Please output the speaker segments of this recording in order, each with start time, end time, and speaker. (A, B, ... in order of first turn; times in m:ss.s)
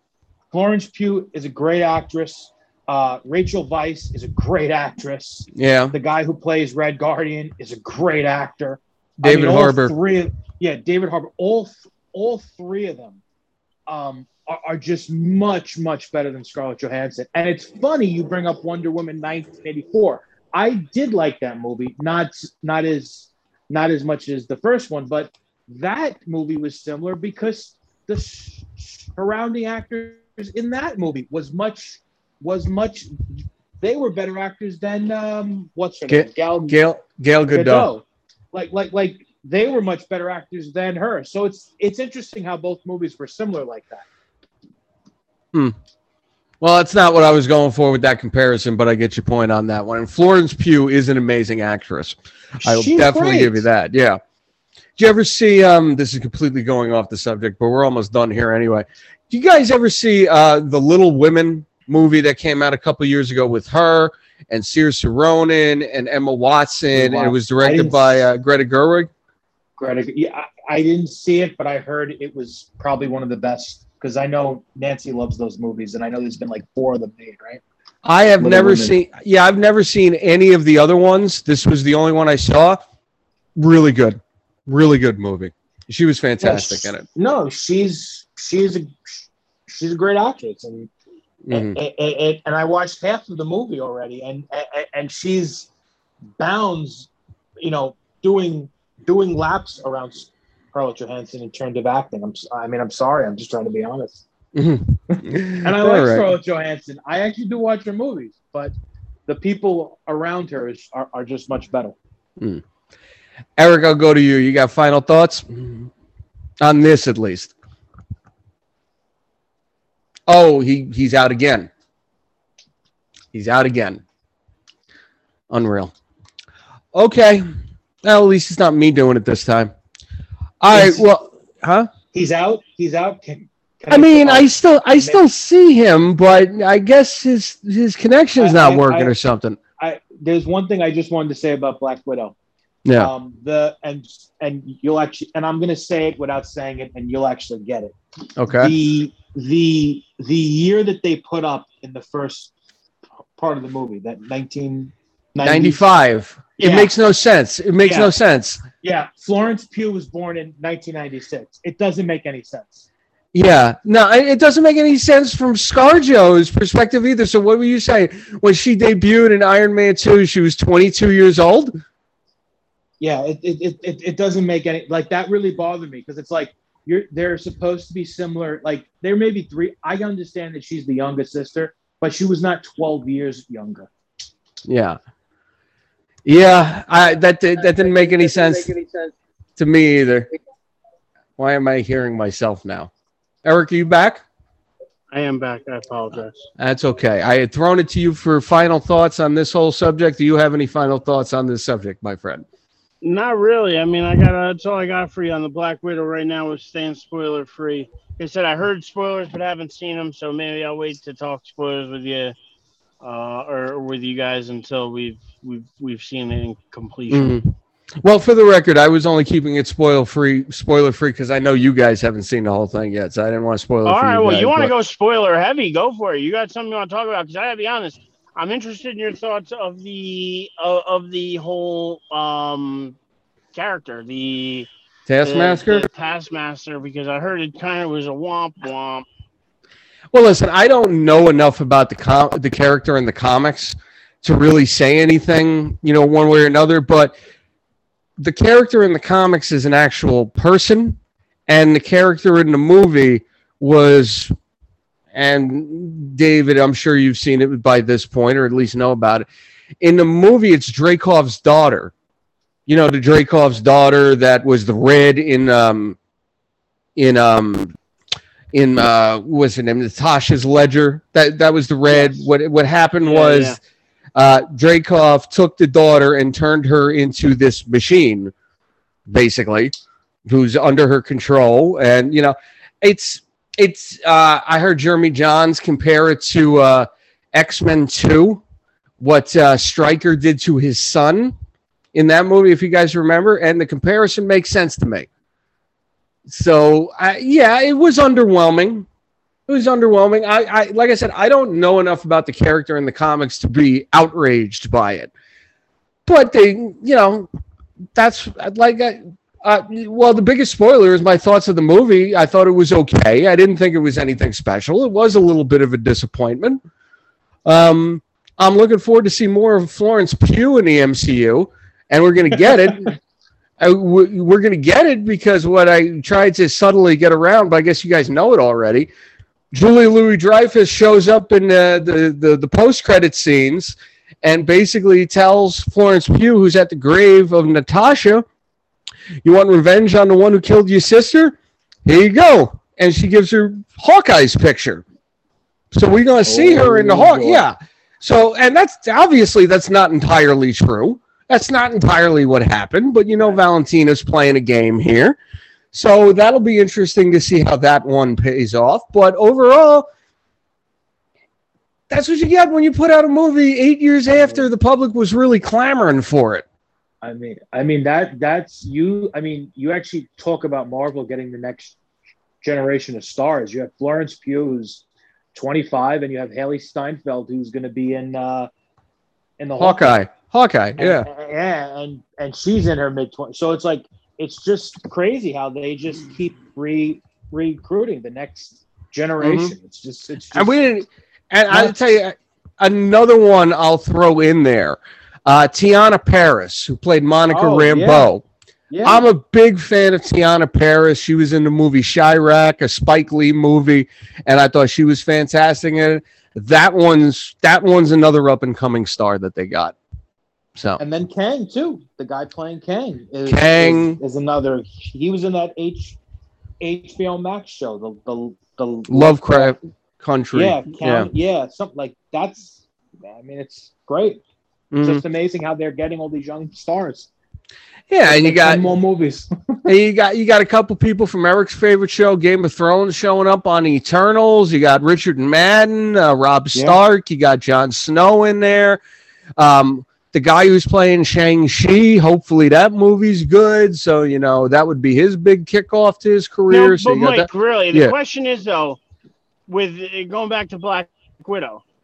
0:00.5-0:13.2 A
0:05.5-0:05.9 B
0:09.2-0:09.9 B
0:13.9-0:36.8 A
0:36.1-0:37.9 B
0:37.5-0:44.0 A
0:46.6-0:54.2 B
0:52.6-0:53.6 A
0:55.0-1:09.1 B
1:06.9-1:08.3 A
1:09.8-1:17.6 A
1:18.0-1:22.8 B
1:18.4-1:18.9 A
1:23.6-1:27.0 B
1:26.4-1:30.9 A
1:31.4-1:31.8 B
1:31.5-1:35.7 A
1:36.4-1:44.2 A
1:44.5-1:46.3 B
1:45.1-1:48.7 A
1:49.3-1:52.0 A
1:53.6-1:55.9 B
1:56.6-1:57.5 B
2:00.3-2:01.7 B
2:03.3-2:04.0 B
2:05.5-2:05.9 B
2:06.9-2:07.5 B
2:08.0-2:09.7 B
2:10.6-2:11.9 B
2:10.7-2:11.0 A
2:12.1-2:15.2 A
2:13.9-2:19.6 B
2:18.4-2:19.1 A
2:19.8-2:22.3 A
2:22.8-2:23.1 B
2:23.0-2:28.0 A
2:28.4-2:28.7 B
2:28.5-2:32.5 A
2:33.3-2:35.8 A
2:35.4-2:38.6 B
2:36.6-2:36.9 A
2:37.8-2:38.1 A
2:38.8-2:42.8 A
2:43.3-2:51.7 B
2:53.0-3:03.9 A
3:04.7-3:05.0 B
3:06.2-3:08.8 B
3:09.6-3:10.3 B
3:11.4-3:12.9 B
3:13.4-3:14.2 B
3:15.1-3:16.5 C
3:16.6-3:22.4 B
3:23.0-3:32.3 C
3:33.0-3:37.4 C
3:37.1-3:44.7 B
3:43.8-3:53.0 C
3:53.5-3:54.7 C
3:55.1-3:55.8 B
3:55.2-3:59.0 C
4:00.1-4:07.2 B
4:08.2-4:14.3 B
4:15.1-4:19.2 B
4:19.8-4:21.9 B
4:22.7-4:26.0 B
4:27.0-4:27.7 B
4:28.5-4:33.6 B
4:33.0-4:33.6 C
4:34.1-4:38.3 B
4:39.1-4:39.7 B
4:40.2-4:48.4 B
4:49.0-4:51.3 B
4:51.9-4:55.1 B
4:56.3-4:58.9 B
4:59.5-5:05.1 B
5:06.0-5:07.3 B
5:08.0-5:16.6 B
5:17.4-5:22.9 B
5:23.6-5:28.9 B
5:29.5-5:38.2 B
5:39.2-5:41.3 B
5:41.8-5:44.8 B
5:45.7-5:55.2 B
5:46.2-5:47.4 A
5:55.7-5:59.9 B
6:01.9-6:06.4 B
6:07.0-6:11.8 A
6:12.4-6:14.8 A
6:15.3-6:18.5 A
6:19.4-6:19.9 A
6:19.6-6:21.1 B
6:20.8-6:30.6 A
6:29.2-6:29.5 B
6:30.3-6:38.2 B
6:31.5-6:31.8 A
6:37.3-6:38.1 A
6:38.7-6:39.0 A
6:38.8-6:49.7 B
6:50.6-6:50.8 B
6:50.8-6:56.0 A
6:53.2-6:54.0 B
6:56.6-6:59.5 A
6:58.9-7:01.1 B
7:00.3-7:04.2 A
7:04.7-7:05.0 B
7:04.8-7:07.1 A
7:07.9-7:08.6 B
7:08.0-7:09.7 A
7:09.6-7:18.8 B
7:19.4-7:27.9 B
7:26.5-7:28.8 C
7:29.5-7:31.6 C